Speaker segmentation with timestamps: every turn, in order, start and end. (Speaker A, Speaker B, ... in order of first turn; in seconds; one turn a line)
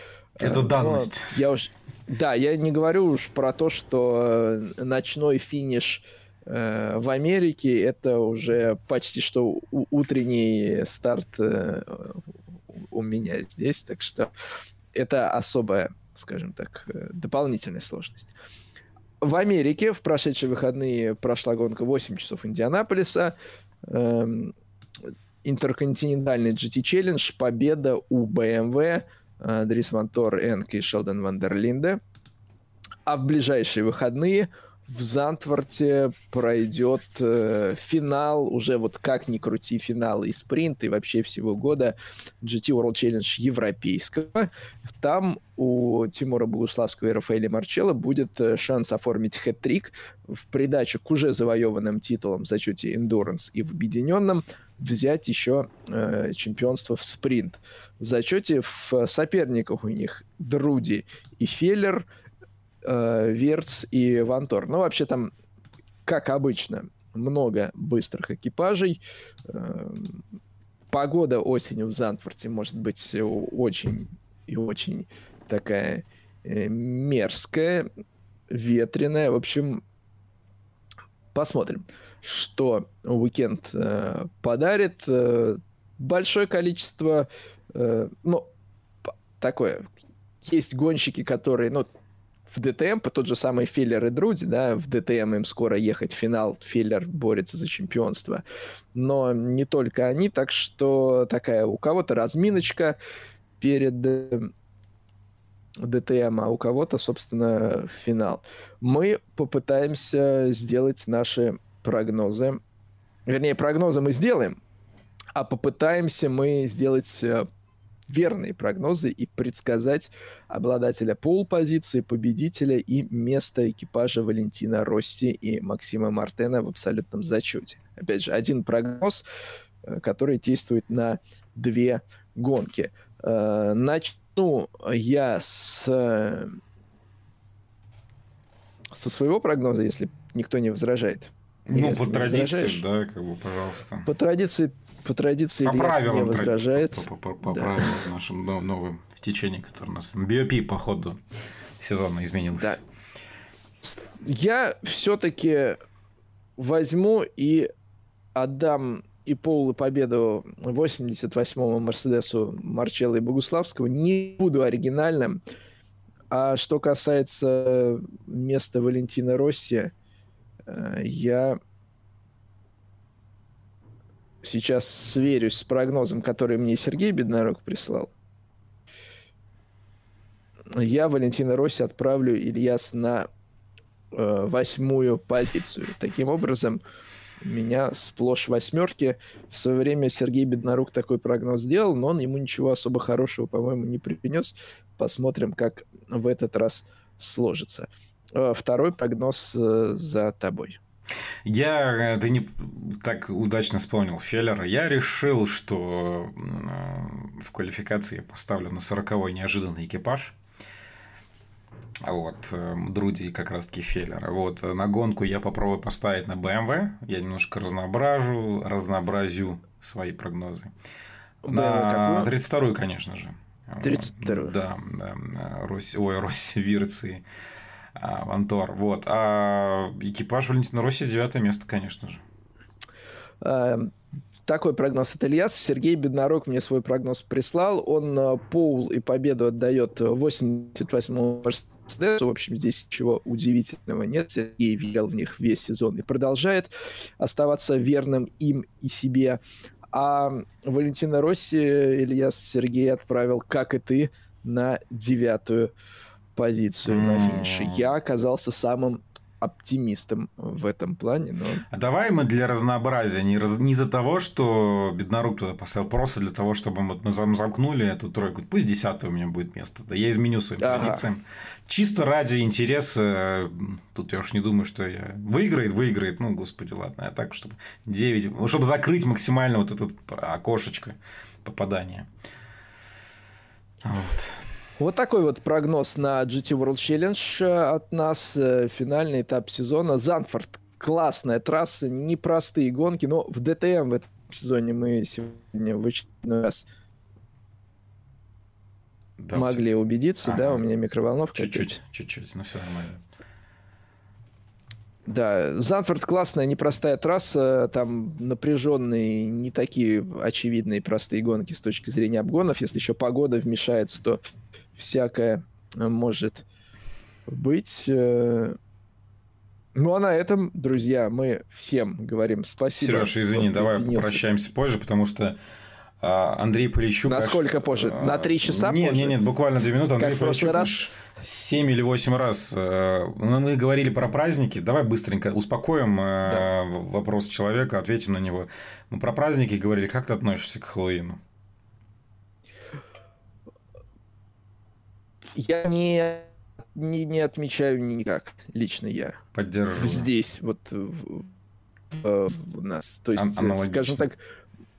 Speaker A: 0.4-12.2
Speaker B: 0.4-1.3
Speaker A: 12.7-14.3
Speaker A: 14.9-18.3
Speaker A: 19.2-23.4
Speaker A: 23.9-24.5
Speaker A: 25.4-32.0
Speaker A: 33.1-44.5
Speaker A: 45.0-62.1
Speaker A: 62.8-65.3
Speaker A: 66.0-70.2
Speaker A: 70.9-77.9
Speaker A: 78.5-79.8
Speaker A: 81.3-88.5
Speaker A: 89.4-89.9
Speaker A: 90.4-91.9
Speaker A: 92.5-98.4
Speaker A: 99.0-103.0
Speaker A: 103.6-104.5
Speaker A: 105.8-112.6
Speaker A: 113.3-114.6
Speaker A: 115.3-117.5
Speaker A: 118.1-129.2
Speaker A: 129.9-136.6
Speaker A: 138.9-142.8
Speaker B: 141.7-144.1
Speaker A: 144.1-147.9
Speaker B: 145.6-151.2
Speaker B: 151.8-152.8
Speaker A: 153.8-155.8
Speaker A: 156.6-157.7
Speaker A: 158.3-165.4
Speaker A: 166.3-169.9
Speaker A: 170.7-171.6
Speaker A: 174.4-178.1
Speaker A: 180.7-183.3
Speaker A: 184.1-186.8
Speaker A: 187.4-200.8
Speaker B: 201.5-210.4
Speaker B: 212.0-220.7
Speaker A: 221.4-222.3
Speaker B: 221.5-227.2
Speaker A: 223.8-224.5
Speaker B: 228.0-232.2
Speaker A: 233.4-233.9
Speaker A: 234.5-249.4
Speaker A: 249.9-255.7
Speaker A: 256.4-261.6
Speaker B: 256.9-257.9
Speaker B: 261.7-282.1
Speaker A: 270.6-271.0
Speaker B: 283.8-284.4
Speaker A: 284.8-296.7
Speaker B: 299.2-299.6
Speaker A: 299.3-301.8
Speaker B: 300.2-300.6
Speaker B: 301.4-303.0
Speaker A: 305.1-314.2
Speaker A: 314.8-316.4
Speaker A: 317.3-318.6
Speaker A: 319.8-324.2
Speaker B: 322.7-325.4
Speaker B: 326.0-341.2
Speaker A: 327.1-329.2
Speaker A: 330.0-330.8
Speaker A: 345.4-349.2
Speaker B: 349.3-350.1
Speaker A: 349.8-351.3
Speaker A: 351.9-354.2
Speaker B: 353.1-354.1